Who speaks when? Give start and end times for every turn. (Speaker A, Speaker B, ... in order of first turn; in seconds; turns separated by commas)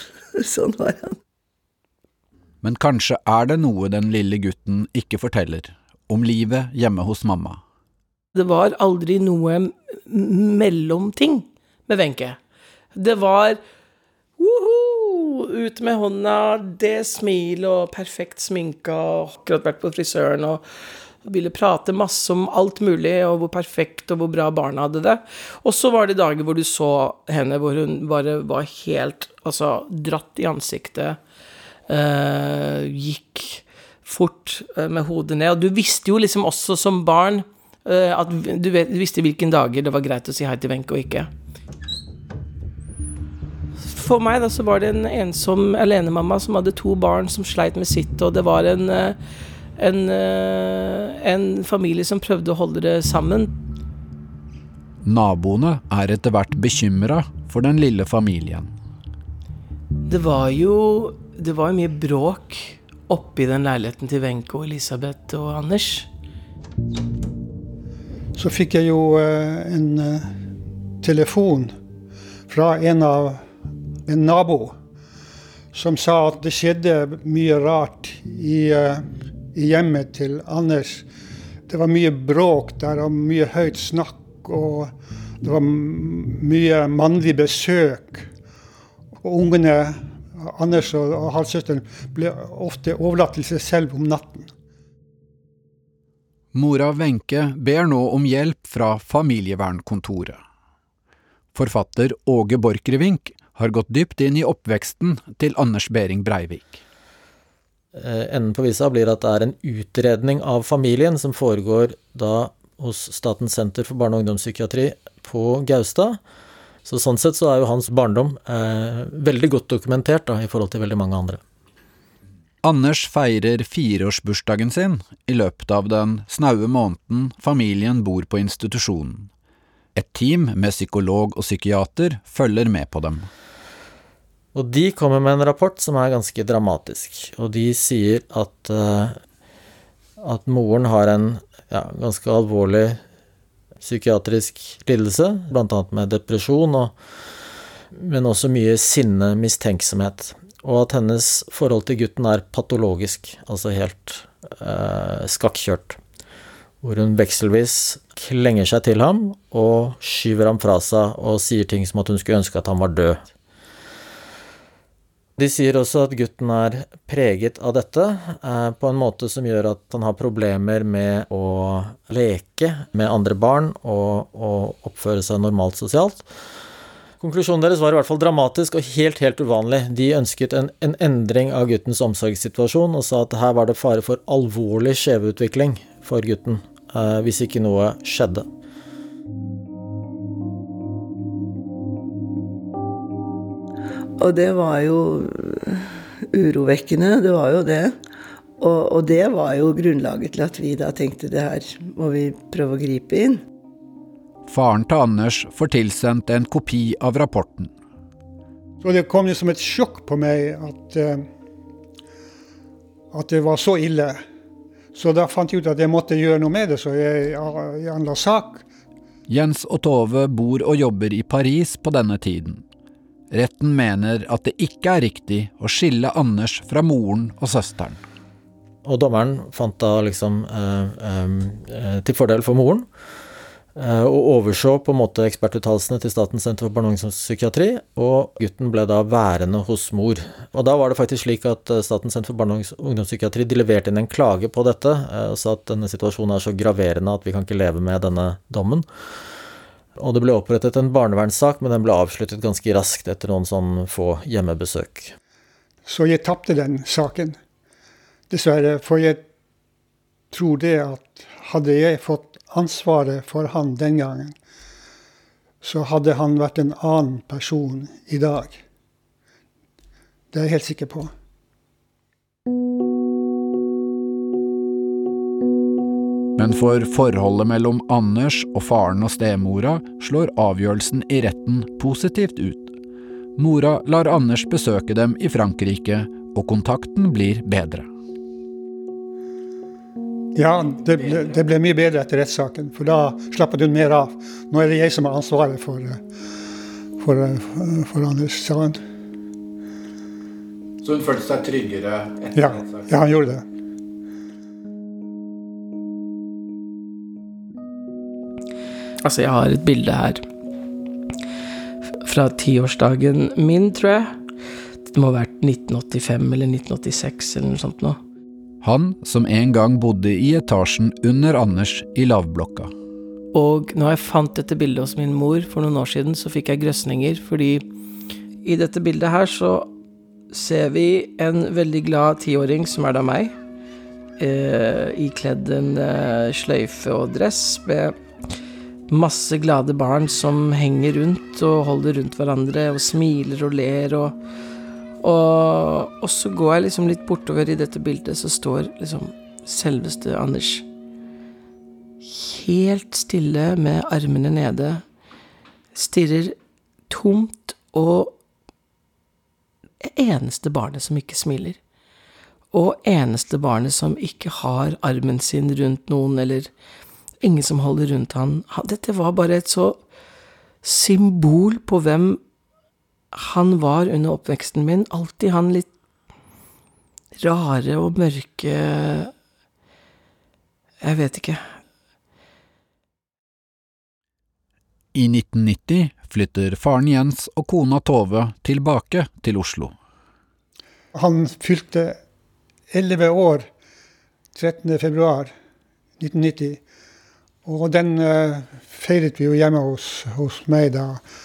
Speaker A: 0.3-1.2, Speaker B: 2.6-7.6, Speaker C: 8.3-12.4, Speaker C: 12.9-13.6, Speaker C: 14.4-20.6, Speaker C: 21.2-31.2, Speaker C: 31.9-41.3, Speaker C: 43.8-49.2, Speaker C: 49.8-53.5, Speaker B: 55.0-58.7, Speaker C: 60.0-66.1, Speaker D: 68.3-70.3, Speaker D: 71.0-71.7, Speaker D: 72.5-73.4, Speaker D: 74.0-74.7, Speaker D: 75.7-81.0, Speaker D: 81.7-88.3, Speaker D: 89.2-94.5, Speaker B: 96.5-100.4, Speaker B: 101.5-106.8, Speaker E: 107.9-116.2, Speaker E: 116.8-121.4, Speaker B: 122.6-129.3, Speaker B: 129.9-133.3, Speaker E: 134.5-139.2, Speaker E: 140.2-143.0, Speaker E: 143.8-146.9, Speaker E: 147.9-156.0, Speaker E: 156.8-163.2, Speaker E: 165.4-176.3, Speaker E: 177.2-188.5, Speaker A: 194.2-198.0, Speaker A: 198.6-203.4, Speaker B: 204.4-207.7, Speaker D: 208.8-211.3, Speaker D: 213.1-214.2, Speaker D: 214.9-218.6, Speaker B: 219.3-222.6, Speaker B: 223.3-228.0, Speaker E: 228.8-232.9, Speaker E: 233.7-248.8, Speaker E: 249.9-255.1, Speaker D: 255.8-257.4, Speaker D: 258.3-259.2, Speaker D: 260.3-264.3, Speaker D: 265.6-268.6, Speaker D: 270.3-271.1, Speaker B: 276.4-282.7, Speaker B: 283.4-287.9, Speaker D: 290.3-296.0, Speaker B: 290.9-291.4, Speaker D: 297.0-298.8, Speaker B: 300.8-302.9, Speaker D: 302.3-303.4, Speaker C: 309.0-310.2, Speaker C: 312.0-314.2, Speaker C: 314.9-318.0, Speaker B: 318.6-322.7, Speaker C: 323.3-327.6, Speaker C: 328.4-329.7, Speaker C: 330.3-333.3, Speaker C: 334.2-337.9, Speaker C: 338.9-344.2, Speaker C: 345.0-350.6, Speaker C: 352.0-354.8, Speaker C: 355.7-356.4, Speaker C: 356.9-358.2, Speaker C: 359.8-361.6, Speaker C: 362.5-366.5, Speaker C: 367.2-369.8, Speaker C: 370.6-372.2, Speaker C: 373.1-375.7, Speaker C: 377.2-379.1, Speaker C: 380.8-381.5, Speaker B: 384.9-389.7, Speaker D: 390.9-392.0, Speaker D: 392.7-393.5, Speaker D: 394.3-395.3, Speaker D: 396.0-396.6, Speaker D: 397.4-401.0